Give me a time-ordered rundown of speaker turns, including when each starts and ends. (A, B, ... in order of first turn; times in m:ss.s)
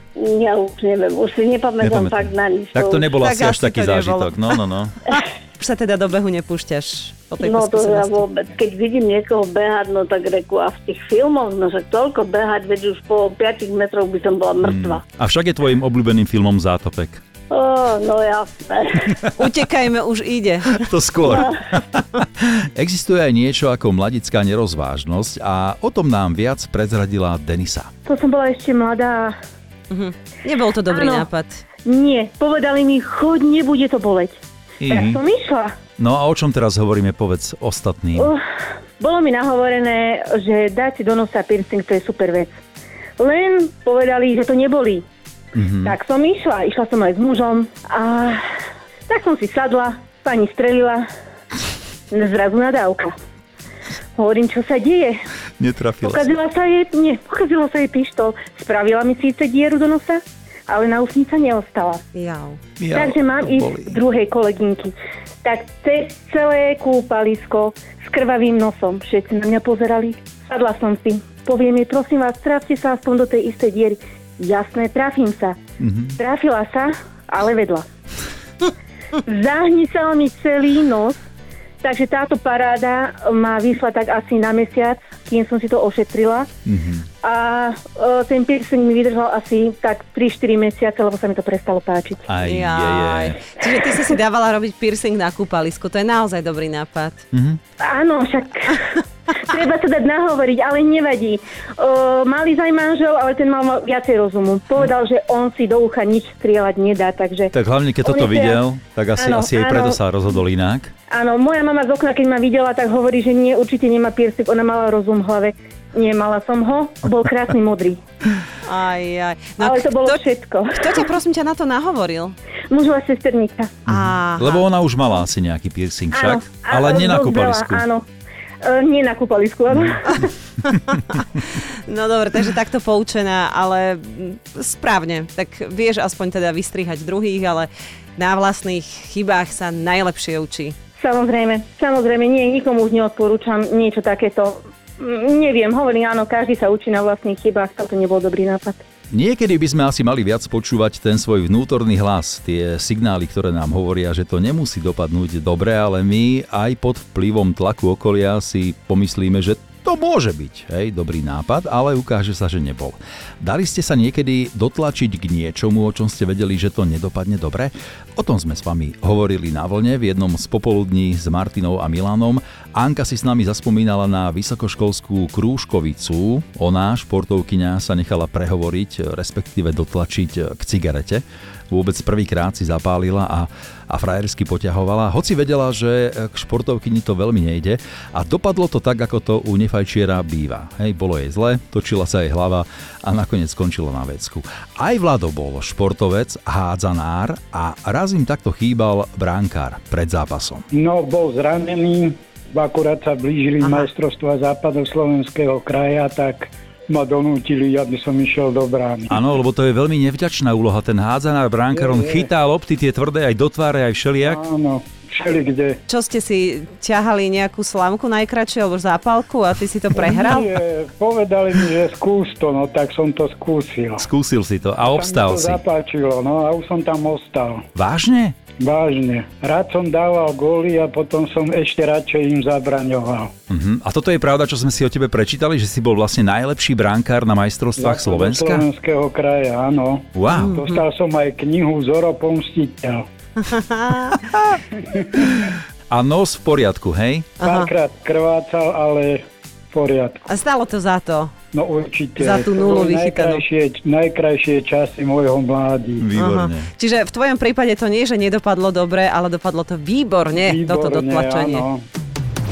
0:00.2-0:03.0 A
0:01.8-0:04.9 B
0:03.1-0:04.5 C
0:05.1-0:08.2 C
0:07.4-0:15.0 A
0:14.6-0:17.2 B
0:17.5-0:19.1 A
0:19.3-0:20.8 C
0:20.7-0:27.9 B
0:28.0-0:29.3 D
0:29.9-0:31.6 C
0:30.9-0:31.3 D
0:31.8-0:35.7 D
0:34.8-0:35.2 B
0:36.0-0:38.3 B
0:39.0-0:42.5 D
0:43.2-0:45.0 D
0:45.5-0:45.9 B
0:45.8-0:48.4 D
0:49.1-0:51.0 D
0:52.1-0:53.1 D
0:54.1-0:55.2 D
0:55.6-0:56.3 B
0:56.0-1:02.0 D
1:02.1-1:02.6 C
1:02.8-1:04.0 B
1:02.9-1:15.6 D
1:15.8-1:16.2 B
1:16.1-1:17.8 D
1:19.2-1:21.2 D
1:21.8-1:26.5 D
1:26.6-1:27.0 B
1:27.2-1:32.2 D
1:32.3-1:33.4 B
1:32.4-1:37.2 C
1:37.3-1:37.6 B
1:37.8-1:38.8 D
1:39.4-1:48.6 D
1:47.5-1:50.9 B
1:49.2-1:50.0 D
1:51.1-1:58.0 D
1:58.6-2:00.2 C
1:59.6-2:00.9 D
2:00.7-2:02.4 C
2:02.7-2:03.8 D
2:03.9-2:07.8 B
2:03.9-2:04.6 C
2:06.1-2:08.0 D
2:08.6-2:10.3 D
2:10.8-2:11.0 C
2:11.8-2:20.7 C
2:21.0-2:28.8 D
2:29.1-3:20.6 B
3:20.7-3:29.1 E
3:29.1-3:34.4 B
3:31.7-3:32.3 E
3:34.2-3:35.8 E
3:35.9-3:40.5 C
3:39.9-3:44.1 E
3:44.0-3:45.6 B
3:44.8-3:47.6 E
3:47.7-3:48.3 B
3:48.6-3:53.3 E
3:53.5-3:58.6 B
3:57.8-4:03.0 E
4:00.1-4:00.5 B
4:00.3-4:00.8 C
4:03.4-4:04.2 C
4:04.9-4:05.3 E
4:05.9-4:07.4 B
4:07.4-4:07.7 C
4:07.4-4:10.3 E
4:10.3-4:11.3 C
4:11.5-4:16.1 E
4:12.2-4:13.4 C
4:16.0-4:16.7 B
4:16.2-4:21.6 C
4:20.4-4:21.8 E